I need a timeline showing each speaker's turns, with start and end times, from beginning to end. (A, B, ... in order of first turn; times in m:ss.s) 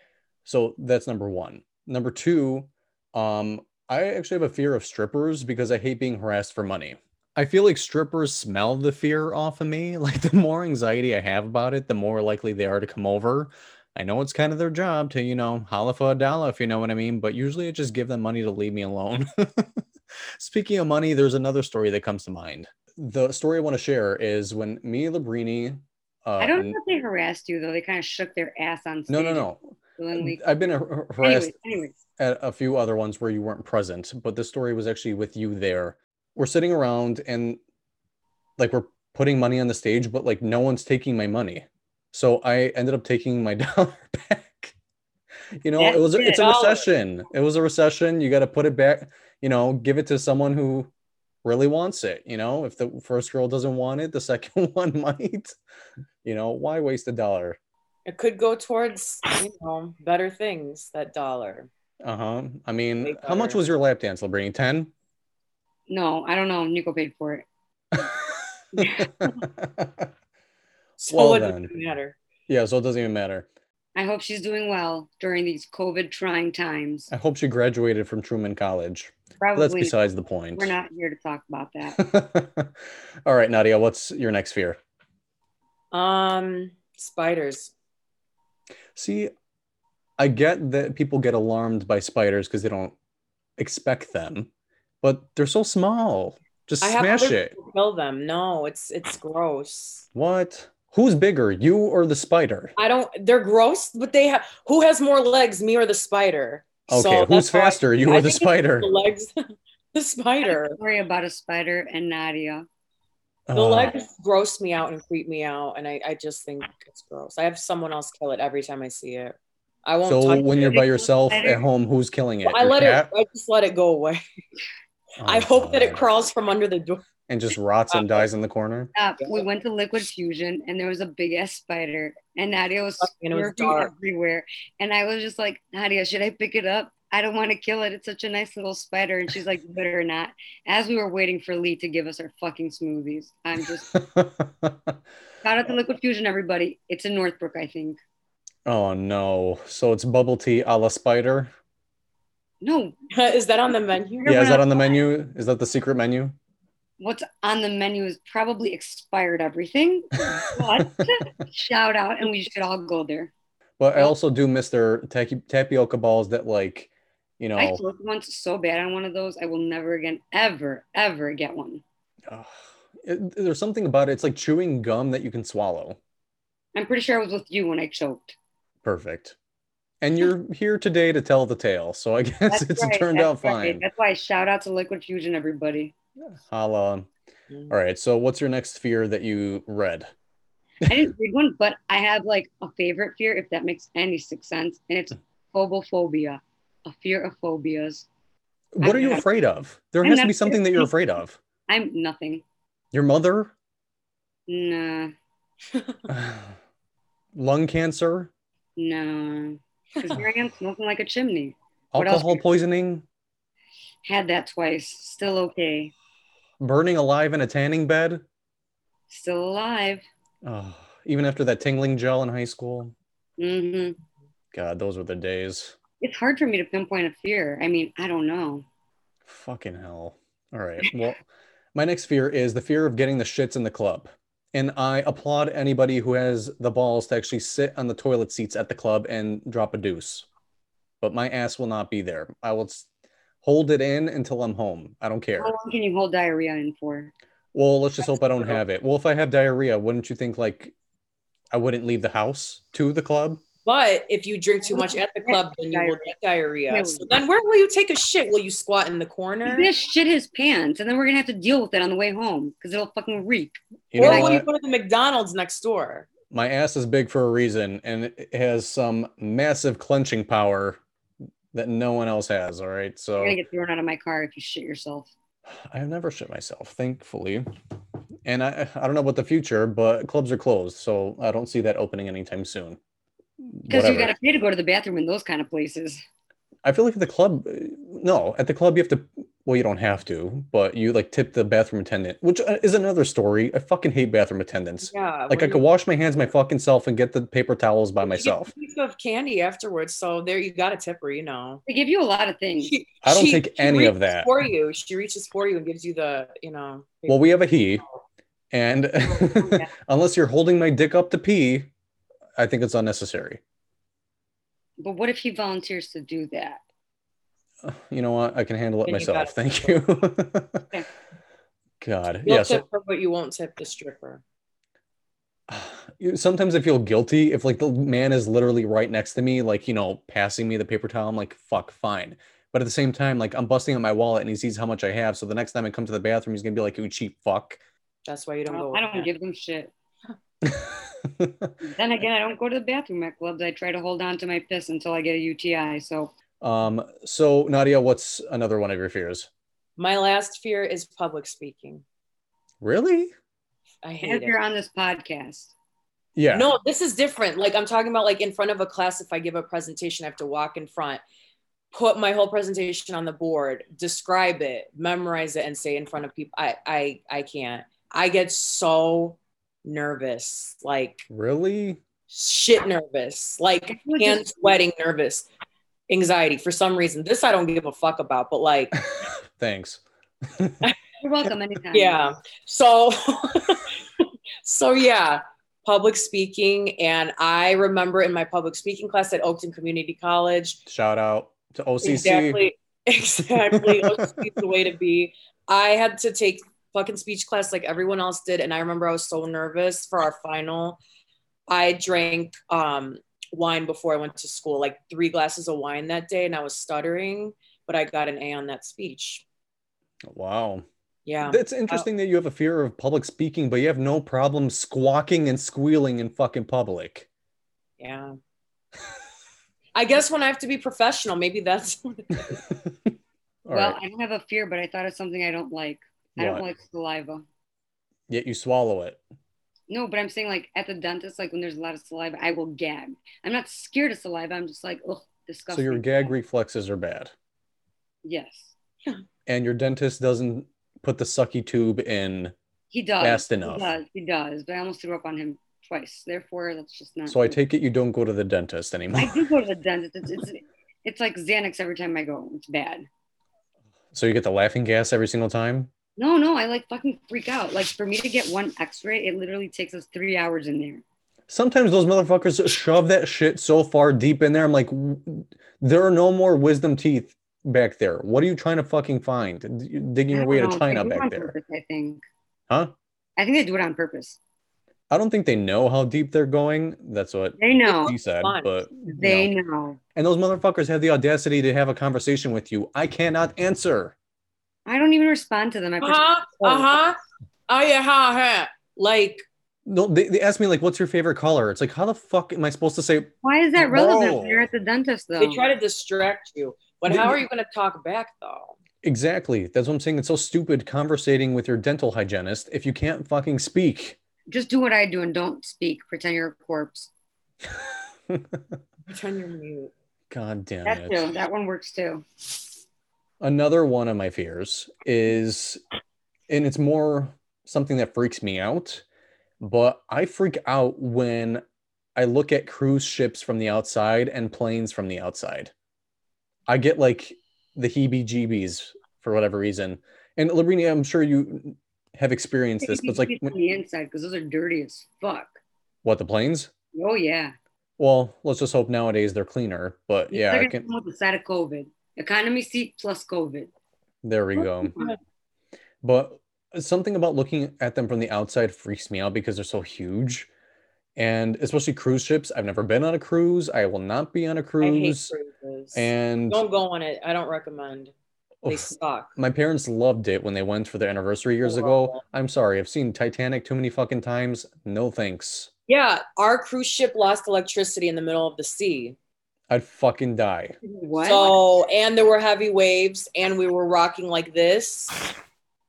0:00.4-0:19.8 A
0:20.4-0:26.8 A
0:26.4-0:30.4 B
0:29.1-0:31.5 A
0:31.2-0:32.0 B
0:32.2-0:37.6 A
0:38.6-0:44.8 A
0:45.6-0:50.9 A
0:45.8-0:46.5 B
0:46.3-0:46.8 C
0:51.4-0:55.6 A
0:56.2-0:57.6 A
0:58.1-1:01.7 C
1:02.0-1:04.9 A
1:03.0-1:03.6 C
1:05.9-1:07.5 B
1:08.8-1:09.3 B
1:08.8-1:10.1 A
1:11.0-1:12.2 C
1:11.1-1:11.7 A
1:12.5-1:13.5 A
1:14.0-1:17.1 B
1:17.1-1:20.7 A
1:19.4-1:19.9 B
1:20.6-1:22.0 B
1:22.0-1:24.8 A
1:25.9-1:27.7 C
1:29.0-1:29.3 A
1:30.2-1:33.0 A
1:33.6-1:34.5 A
1:35.0-1:37.5 A
1:36.8-1:40.1 C
1:40.1-1:42.8 A
1:42.8-1:49.4 C
1:46.9-1:48.9 A
1:49.9-1:50.8 C
1:50.4-1:52.7 B
1:53.5-1:54.0 A
1:53.5-2:00.9 C
2:00.0-2:03.1 A
2:00.8-2:01.6 B
2:02.5-2:04.2 C
2:05.2-2:06.0 A
2:05.2-2:07.0 C
2:07.3-2:08.9 A
2:07.9-2:08.2 C
2:09.0-2:23.9 B
2:13.0-2:13.9 C
2:23.9-2:25.0 A
2:25.4-2:28.0 B
2:28.7-2:31.5 A
2:32.6-2:33.0 B
2:33.1-2:34.4 C
2:34.2-2:34.8 B
2:34.2-2:36.4 A
2:37.0-2:43.3 B
2:40.3-2:40.9 A
2:43.8-2:47.8 A
2:47.6-2:51.8 B
2:52.3-2:56.0 A
2:56.8-2:58.4 B
2:58.8-2:59.4 A
3:00.0-3:03.8 A
3:02.5-3:05.9 B
3:06.3-3:07.1 A
3:07.7-3:10.1 A
3:10.8-3:18.1 B
3:18.8-3:21.4 A
3:18.8-3:19.3 B
3:20.0-3:20.9 B
3:21.7-3:22.4 B
3:22.9-3:23.5 A
3:24.5-3:25.1 B
3:26.1-3:26.6 A
3:27.3-3:28.3 A
3:28.8-3:32.4 B
3:31.9-3:33.0 A
3:34.0-3:35.9 B
3:36.6-3:38.2 A
3:39.1-3:40.0 B
3:40.4-3:42.9 A
3:43.4-3:44.0 B
3:44.5-3:45.8 A
3:46.0-3:48.6 B
3:49.3-4:00.3 A
4:01.0-4:02.9 A
4:03.4-4:05.5 A
4:05.4-4:07.1 B
4:07.5-4:10.7 A
4:11.5-4:13.4 A
4:13.6-4:19.7 C
4:14.7-4:16.1 B
4:16.7-4:17.1 B
4:19.4-4:24.4 B
4:23.9-4:24.5 A
4:24.0-4:26.1 C
4:26.3-4:30.8 A
4:31.5-4:33.4 A
4:33.2-4:35.1 B
4:35.5-4:37.5 A
4:38.2-4:42.8 A
4:43.4-4:44.2 A
4:43.7-4:46.0 B
4:46.6-4:58.5 A
4:54.9-4:55.6 C
4:58.0-5:01.6 C
5:01.7-5:02.8 B
5:02.6-5:07.6 C
5:03.0-5:04.3 A
5:07.1-5:07.8 A
5:08.5-5:11.7 A
5:09.0-5:09.7 B
5:12.4-5:13.4 A
5:14.8-5:16.6 B
5:17.6-5:20.7 A
5:18.9-5:19.8 C
5:21.8-5:22.6 A
5:22.2-5:24.2 C
5:25.5-5:37.6 A
5:38.1-5:39.1 C
5:38.5-5:39.7 B
5:40.4-5:41.5 A
5:41.6-5:46.1 B
5:46.4-5:49.3 A
5:49.8-5:51.8 C
5:52.6-5:53.1 A
5:53.8-5:54.4 C
5:54.0-5:55.5 B
5:56.2-5:56.5 A
5:56.3-6:01.0 C
6:01.7-6:11.1 C
6:11.1-6:11.8 A
6:12.1-6:15.3 C
6:13.8-6:14.5 B
6:15.9-6:18.8 C
6:18.9-6:20.6 A
6:21.0-6:22.0 B
6:21.7-6:30.6 C
6:30.7-6:32.4 A
6:31.8-6:40.8 C
6:33.5-6:34.1 A
6:41.5-6:49.2 C
6:50.1-6:50.7 A
6:51.1-6:51.9 C
6:51.2-6:57.1 A
6:57.8-6:58.1 C
6:59.8-7:02.5 C
7:02.6-7:02.9 A
7:03.4-7:03.8 A
7:03.5-7:07.2 B
7:06.2-7:06.4 A
7:08.1-7:09.0 A
7:09.7-7:16.1 B
7:15.5-7:17.1 A
7:18.0-7:18.5 B
7:19.3-7:22.4 A
7:22.7-7:27.4 B
7:23.0-7:23.7 A
7:27.1-7:29.2 A
7:29.0-7:32.9 B
7:33.9-7:35.7 A
7:36.0-7:40.8 B
7:41.3-7:51.4 A
7:50.1-7:52.0 B
7:53.2-7:54.2 B
7:54.9-7:59.3 A
7:57.4-7:58.0 B
7:57.7-7:58.5 C
7:58.9-7:59.8 B
8:00.0-8:04.0 A
8:04.7-8:06.7 B
8:05.8-8:07.0 C
8:07.5-8:09.3 C
8:09.7-8:14.5 A
8:13.2-8:15.5 B
8:15.2-8:18.6 C
8:16.9-8:17.2 A
8:18.8-8:24.0 A
8:24.3-8:26.9 B
8:27.6-8:28.6 A
8:28.9-8:29.7 C
8:30.1-8:31.1 A
8:30.6-8:32.0 B
8:33.2-8:35.6 A
8:36.3-8:38.8 A
8:39.4-8:41.4 A
8:42.0-8:45.5 A
8:46.5-8:53.3 A
8:52.6-8:55.4 B
8:55.8-8:56.5 A
8:56.7-8:57.3 B
8:57.8-9:00.6 A
9:00.1-9:03.5 B
9:04.0-9:04.7 A
9:04.4-9:05.0 B
9:05.8-9:10.3 A
9:11.0-9:15.1 A
9:14.6-9:17.9 C
9:15.7-9:16.4 A
9:18.4-9:25.5 A
9:18.5-9:19.1 C
9:21.4-9:22.0 C
9:25.7-9:29.0 C
9:29.5-9:30.6 A
9:30.6-9:31.4 B
9:31.0-9:35.1 C